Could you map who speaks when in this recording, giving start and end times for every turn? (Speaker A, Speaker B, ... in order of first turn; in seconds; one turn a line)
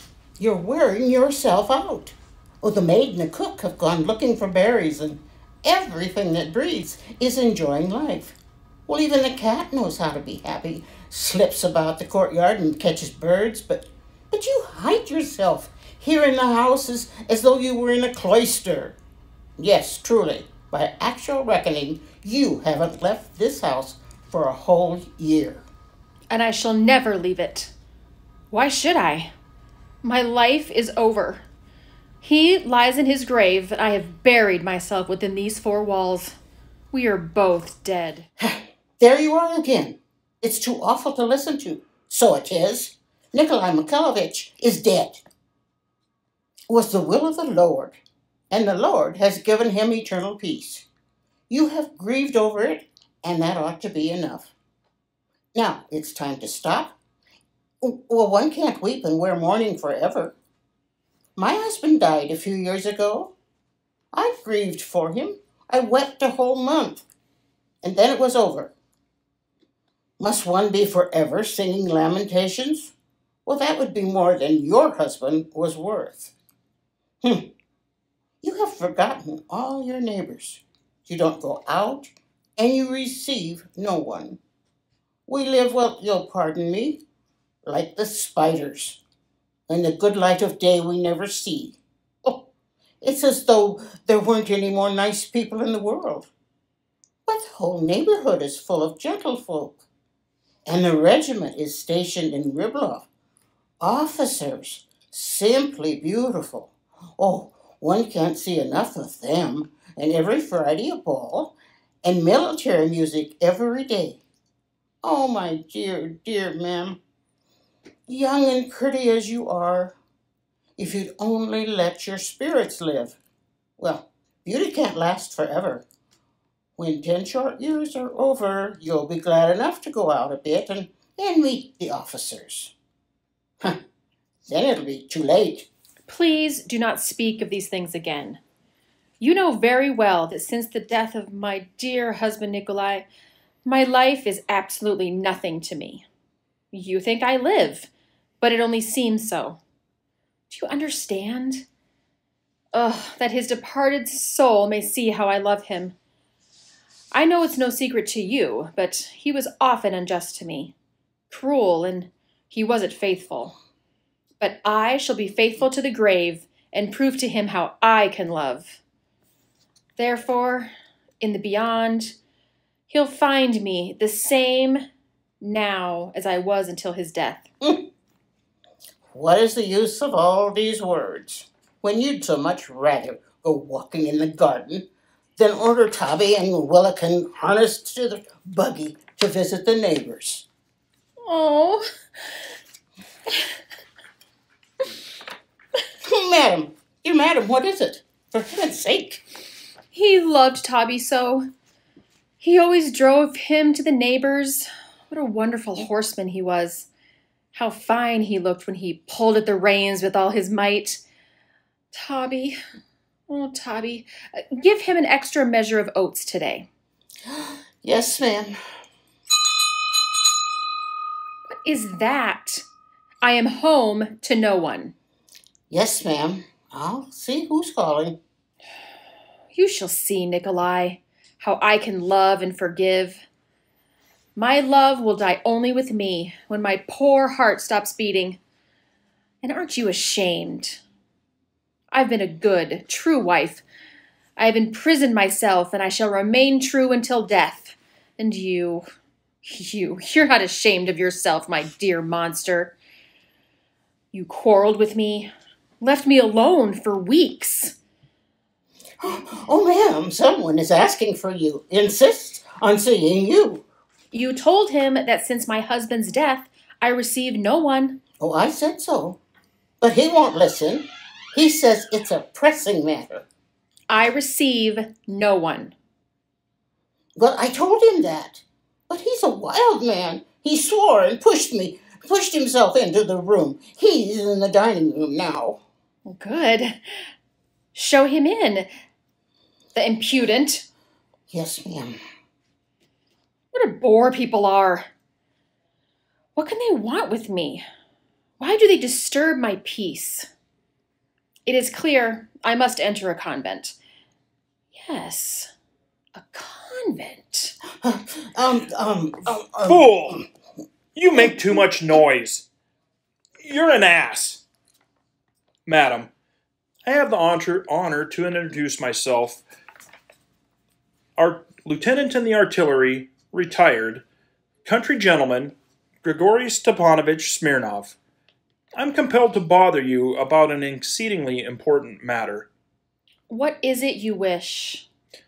Speaker A: 0.4-19.0
Speaker A: 19.6-25.6
Speaker B: 26.3-27.7
Speaker B: 28.5-29.3
Speaker B: 30.0-31.4
Speaker B: 32.2-36.4
Speaker B: 36.9-38.3
Speaker A: 38.4-45.2
Speaker A: 46.7-48.0
Speaker A: 48.5-50.9
Speaker A: 51.5-54.5
Speaker A: 55.5-57.0
Speaker A: 57.8-60.3
Speaker A: 61.4-63.3
Speaker A: 64.1-67.0
Speaker A: 67.8-68.7
Speaker A: 70.2-72.9
Speaker A: 73.5-76.3
Speaker A: 77.2-77.5
Speaker A: 78.4-84.4
Speaker A: 85.3-87.0
Speaker A: 87.7-89.0
Speaker A: 89.7-92.5
Speaker A: 93.0-96.3
Speaker A: 97.2-99.8
Speaker A: 100.7-103.1
Speaker A: 103.8-114.2
Speaker A: 115.0-117.0
Speaker A: 118.1-120.0
Speaker A: 120.8-123.2
Speaker A: 123.8-125.8
Speaker A: 126.8-132.7
Speaker A: 134.4-135.7
Speaker B: 136.1-138.4
Speaker B: 139.2-143.1
Speaker B: 143.6-146.0
Speaker B: 146.7-147.9
Speaker B: 148.4-149.6
Speaker B: 150.5-151.6
Speaker B: 152.7-155.9
Speaker B: 157.1-160.7
Speaker B: 161.3-163.6
Speaker B: 164.4-168.8
Speaker B: 170.0-172.2
Speaker B: 172.9-174.9
Speaker B: 175.4-177.4
Speaker A: 177.6-177.9
Speaker A: 179.1-190.4
Speaker B: 191.3-191.8
Speaker A: 196.0-199.2
Speaker B: 199.9-201.5
Speaker B: 202.4-206.9
Speaker B: 207.5-211.0
Speaker B: 211.9-212.6
Speaker B: 213.3-216.7
Speaker A: 217.3-218.6
Speaker B: 221.5-222.7
Speaker B: 223.2-224.9
Speaker A: 225.7-228.2
Speaker B: 229.5-233.2
Speaker B: 234.3-238.4
Speaker B: 239.4-240.8
Speaker B: 241.9-243.6
Speaker B: 244.4-248.8
Speaker B: 249.4-252.7
Speaker B: 254.1-255.3
Speaker B: 255.8-257.8
Speaker A: 259.0-263.6
Speaker B: 264.1-268.0
Speaker A: 268.2-269.2
Speaker A: 269.8-273.2
Speaker B: 273.9-275.7
Speaker A: 277.1-285.6
Speaker B: 286.1-286.8
Speaker B: 287.7-288.7
Speaker B: 289.7-290.7
Speaker A: 291.3-291.9
Speaker B: 293.5-294.9
Speaker B: 296.4-297.6
Speaker B: 298.4-300.3
Speaker B: 301.4-303.8
Speaker B: 304.7-305.5
Speaker B: 306.1-307.6
Speaker A: 307.8-310.2
Speaker C: 309.6-310.2
Speaker C: 310.9-312.4
Speaker C: 313.4-314.4
Speaker C: 315.6-316.1
Speaker C: 316.8-319.4
Speaker C: 321.2-324.0
Speaker C: 324.6-327.9
Speaker C: 328.7-332.5
Speaker B: 333.3-334.9